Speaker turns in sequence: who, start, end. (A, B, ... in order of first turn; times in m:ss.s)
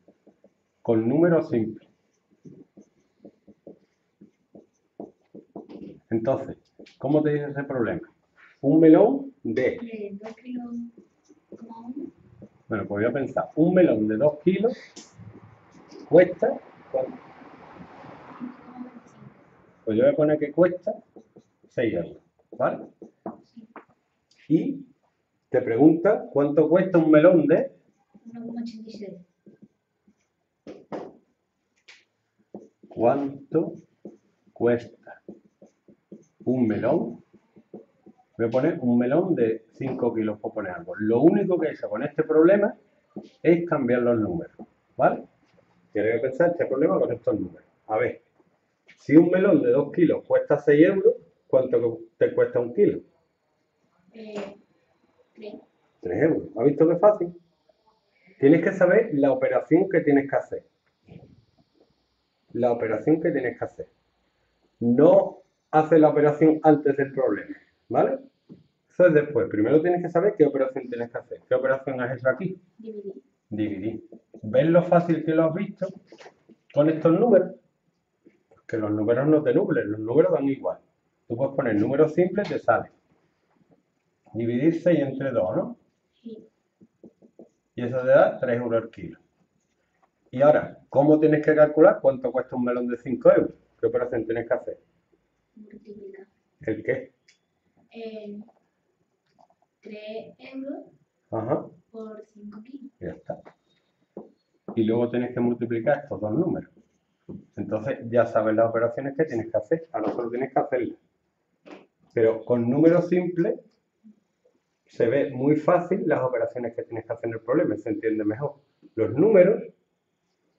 0:00.8-0:01.9 A
0:06.1-0:09.8 A
0:09.8-0:10.9 B
0:11.5-0:12.1 B
0:12.7-0:14.8 A
0:16.1-0:17.2 A
0:18.3-0:19.4 B
0:19.8-0:21.0 A
0:21.7-0:22.9 A
0:24.5-0:24.9 A
0:25.5-0:27.7 A
0:28.2-0:29.2 B
0:32.9-0:33.8 A
0:34.6-0:35.2 A
0:36.4-0:37.2 A
0:38.4-0:42.7 A
0:43.4-0:45.2 A
0:45.9-0:48.2 A
0:49.0-0:53.0 A
0:54.1-0:54.6 B
0:55.3-0:55.6 B
0:56.0-0:57.4 A
0:58.4-1:00.6 A
1:02.5-1:03.9 A
1:04.8-1:08.2 A
1:08.9-1:12.6 A
1:12.8-1:13.2 B
1:13.5-1:15.9 A
1:16.7-1:17.5 A
1:18.6-1:22.9 A
1:24.3-1:25.8 A
1:26.2-1:26.4 B
1:27.8-1:29.2 A
1:30.3-1:34.8 A
1:35.6-1:36.3 B
1:36.6-1:37.1 A
1:37.9-1:38.5 B
1:39.8-1:40.9 B
1:41.3-1:41.7 A
1:41.9-1:42.9 B
1:43.0-1:43.4 A
1:44.7-1:46.7 A
1:47.6-1:51.0 A
1:52.1-1:53.6 A
1:54.8-1:59.7 A